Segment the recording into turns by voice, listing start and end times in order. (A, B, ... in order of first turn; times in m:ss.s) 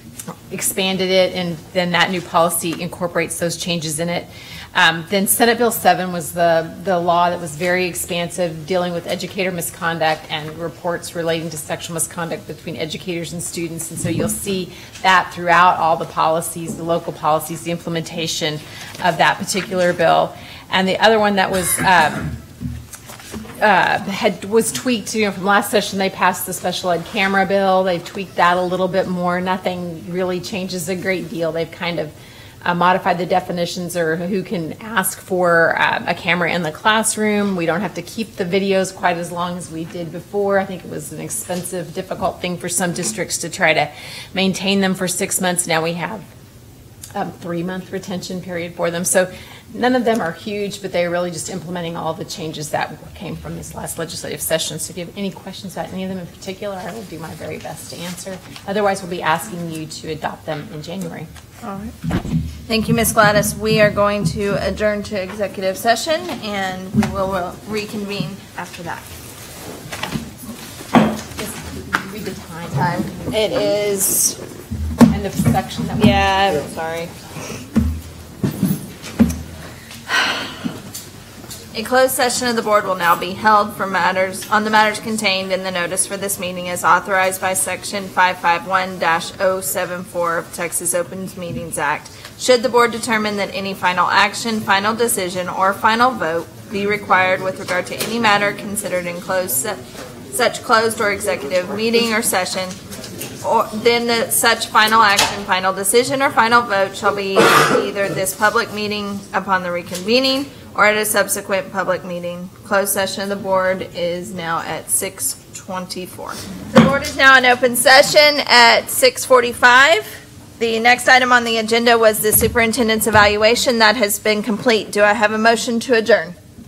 0:00.5-0:22.4 A
0:23.6-0:46.2 A
0:47.1-1:01.3 A
1:01.6-1:01.9 B
1:02.7-1:09.0 B
1:11.4-1:13.1 A
1:12.8-1:14.4 B
1:15.1-1:16.2 A
1:16.0-1:17.1 B
1:21.7-1:39.8 B
1:40.3-1:42.8 B
1:43.4-2:06.4 B